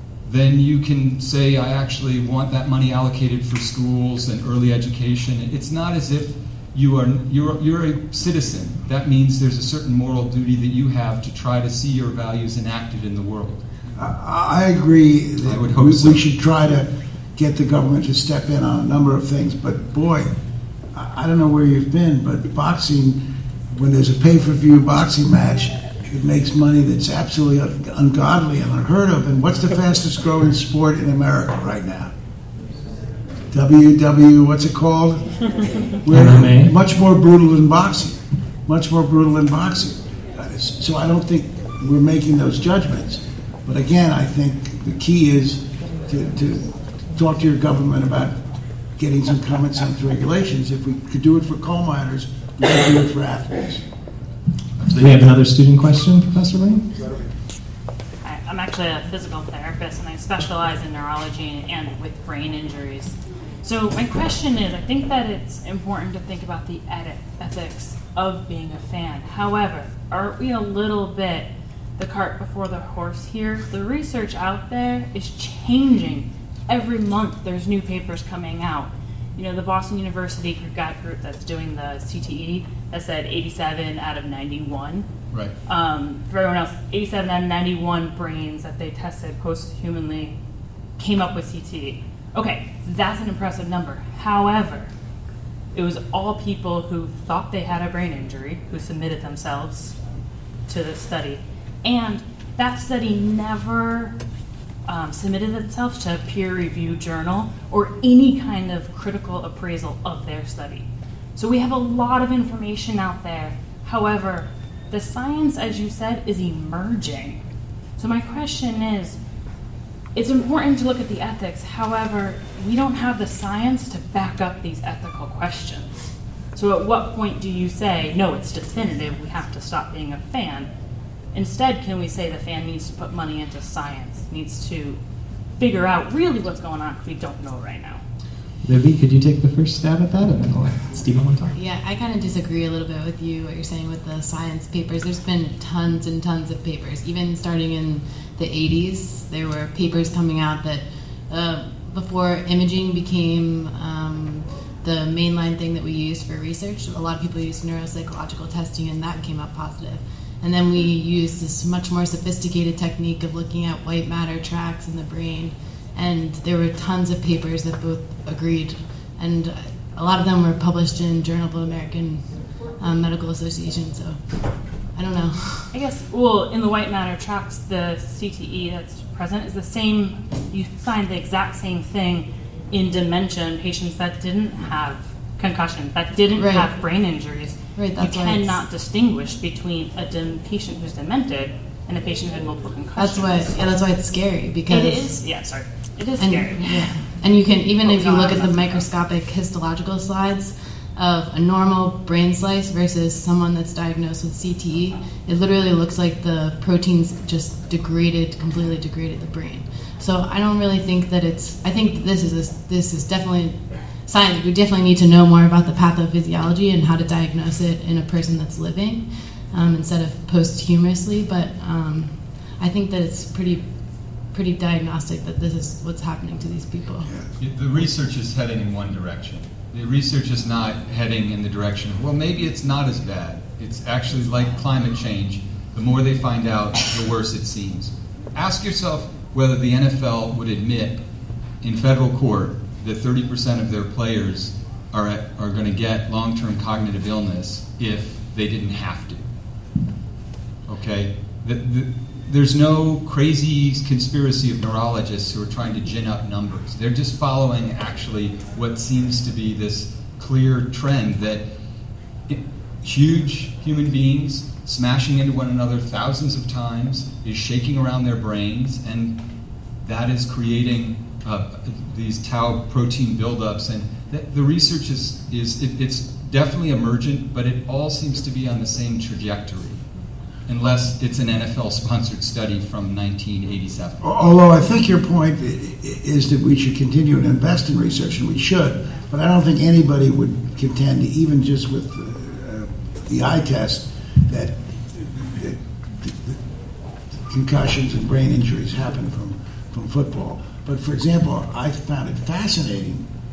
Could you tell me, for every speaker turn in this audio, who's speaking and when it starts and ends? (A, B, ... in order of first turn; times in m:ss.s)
0:00.2-0:13.6 A
0:14.0-0:20.3 B
0:15.4-0:16.2 A
0:20.9-0:32.1 B
0:33.5-0:48.4 B
0:36.1-0:36.7 C
0:49.0-0:53.8 B
0:54.9-0:56.9 C
0:58.2-1:25.0 D
1:25.7-1:30.3 D
1:31.0-1:34.9 D
1:35.7-1:40.0 D
1:40.7-1:44.2 D
1:44.8-1:57.4 D
1:58.0-1:59.2 D
2:00.1-2:05.9 D
2:06.5-2:10.7 D
2:11.3-2:15.0 D
2:15.6-2:18.0 D
2:18.6-2:21.6 C
2:21.5-2:52.3 E
2:52.8-2:54.2 E
2:54.9-2:55.7 E
2:55.7-3:13.7 D
3:06.3-3:06.7 E
3:07.8-3:08.6 E
3:13.0-3:15.2 E
3:14.7-3:17.0 D
3:16.2-3:43.7 E
3:17.8-3:18.8 D
3:44.3-3:47.1 E
3:47.4-4:01.0 A
4:01.6-4:09.3 A
4:10.7-4:21.4 A
4:22.3-4:29.2 A
4:29.8-4:39.8 A
4:40.5-4:44.0 A
4:44.0-4:56.4 B
4:57.1-5:03.0 B